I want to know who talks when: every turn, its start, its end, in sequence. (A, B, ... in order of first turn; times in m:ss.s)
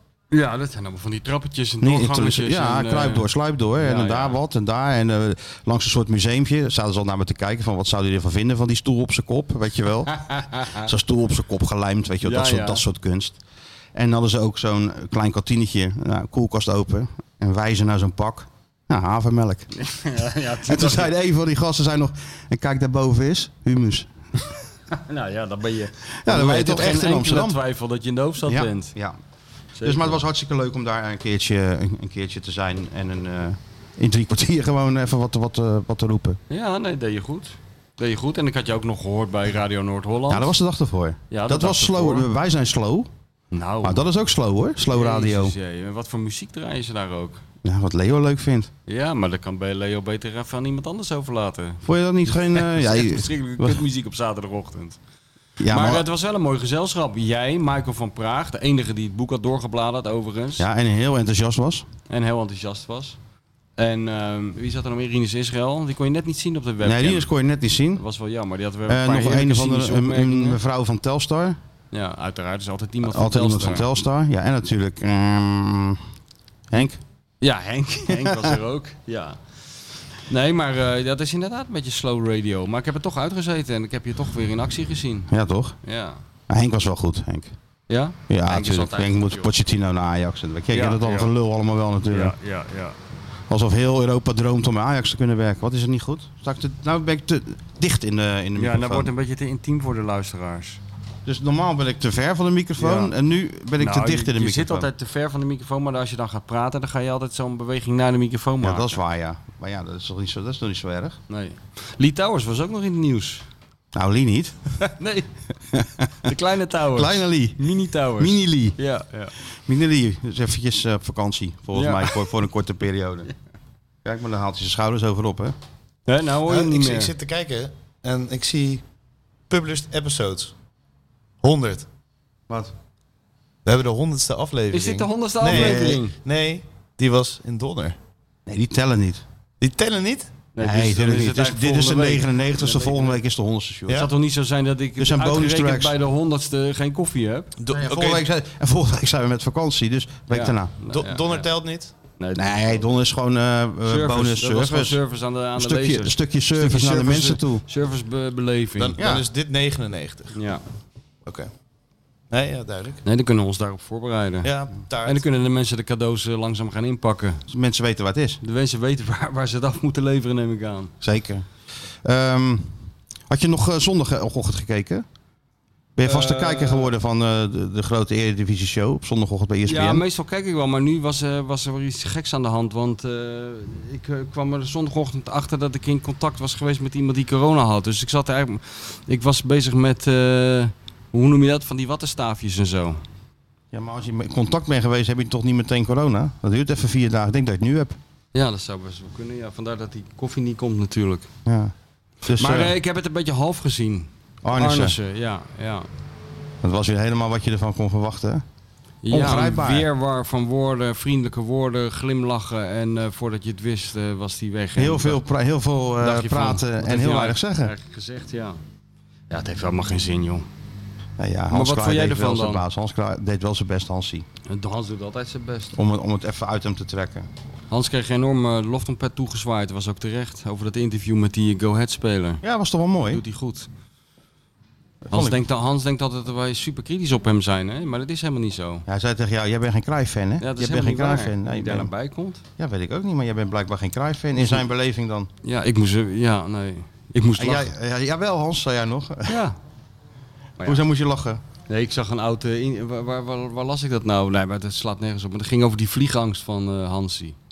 0:00.3-0:04.4 A
0:01.8-0:13.4 B
0:10.1-0:10.9 A
0:12.2-0:12.8 A
0:13.9-0:19.7 B
0:19.8-0:21.1 A
0:20.6-0:24.6 B
0:24.9-0:28.9 A
0:26.2-0:27.6 B
0:28.4-0:29.2 B
0:29.8-0:30.2 A
0:29.8-0:36.4 B
0:36.5-0:40.6 A
0:40.3-0:43.1 B
0:41.3-0:42.3 A
0:43.5-0:44.0 A
0:43.8-0:45.6 B
0:44.9-0:47.4 A
0:47.6-0:48.7 B
0:48.9-0:55.0 A
0:51.8-0:53.8 B
0:55.6-0:56.0 B
0:55.7-1:00.7 A
1:00.6-1:01.9 B
1:02.1-1:03.2 A
1:03.8-1:07.3 A
1:06.8-1:08.0 B
1:08.0-1:10.6 A
1:08.9-1:11.6 B
1:11.9-1:14.0 A
1:13.0-1:16.0 B
1:16.7-1:17.0 B
1:17.4-1:19.4 A
1:18.1-1:18.5 B
1:20.3-1:25.3 A
1:25.3-1:25.8 B
1:25.8-1:26.2 A
1:26.5-1:27.5 B
1:27.9-1:29.5 A
1:28.3-1:32.4 B
1:30.7-1:31.3 A
1:32.1-1:33.0 A
1:33.5-1:39.1 B
1:38.6-1:40.8 A
1:41.2-1:44.9 B
1:42.8-1:43.2 A
1:43.8-1:49.0 A
1:48.6-1:51.2 B
1:51.3-1:53.4 A
1:53.9-1:54.6 B
1:54.8-1:59.3 A
1:55.7-1:56.3 B
1:56.9-1:58.8 B
1:59.7-2:03.3 B
2:01.8-2:02.3 A
2:04.0-2:05.6 B
2:06.1-2:07.1 A
2:06.5-2:08.8 C
2:09.5-2:10.5 C
2:11.4-2:11.9 C
2:13.6-2:18.0 C
2:14.7-2:16.2 A
2:15.5-2:16.0 B
2:18.5-2:19.2 B
2:19.6-2:20.3 C
2:20.6-2:23.2 A
2:20.6-2:24.0 B
2:23.9-2:27.5 A
2:25.0-2:26.0 B
2:27.6-2:28.3 C
2:27.7-2:30.7 B
2:30.3-2:31.5 A
2:30.9-2:31.9 C
2:32.2-2:32.8 A
2:32.4-2:35.0 B
2:33.8-2:39.0 A
2:35.6-2:37.6 B
2:38.8-2:40.4 C
2:39.0-2:39.2 B
2:40.3-2:40.6 A
2:42.3-2:43.0 C
2:43.0-2:44.5 A
2:44.4-2:45.2 C
2:45.0-2:47.4 A
2:47.5-2:48.4 B
2:48.4-2:50.9 A
2:51.0-2:51.4 B
2:52.0-2:55.0 B
2:56.0-3:00.0 B
2:56.0-2:56.9 A
2:59.7-3:13.0 A
3:13.7-3:18.0 B
3:18.3-3:21.3 A
3:21.5-3:22.7 B
3:22.4-3:25.9 A
3:24.4-3:25.0 B
3:26.6-3:28.4 B
3:29.0-3:35.2 A
3:29.1-3:29.9 B
3:34.8-3:37.7 B
3:36.0-3:38.6 A
3:39.3-3:40.5 A
3:41.2-3:44.3 B
3:41.5-3:42.6 A
3:44.5-3:45.8 A
3:45.7-3:47.3 B
3:47.7-3:52.4 A
3:52.4-3:53.2 B
3:53.1-3:53.7 A
3:55.1-3:55.4 B
3:55.1-3:58.9 A
3:58.9-4:01.9 B
4:00.4-4:02.4 A
4:02.6-4:05.3 B
4:05.4-4:07.7 A
4:07.4-4:09.4 B
4:09.3-4:09.6 A
4:10.6-4:11.4 B
4:11.7-4:17.4 A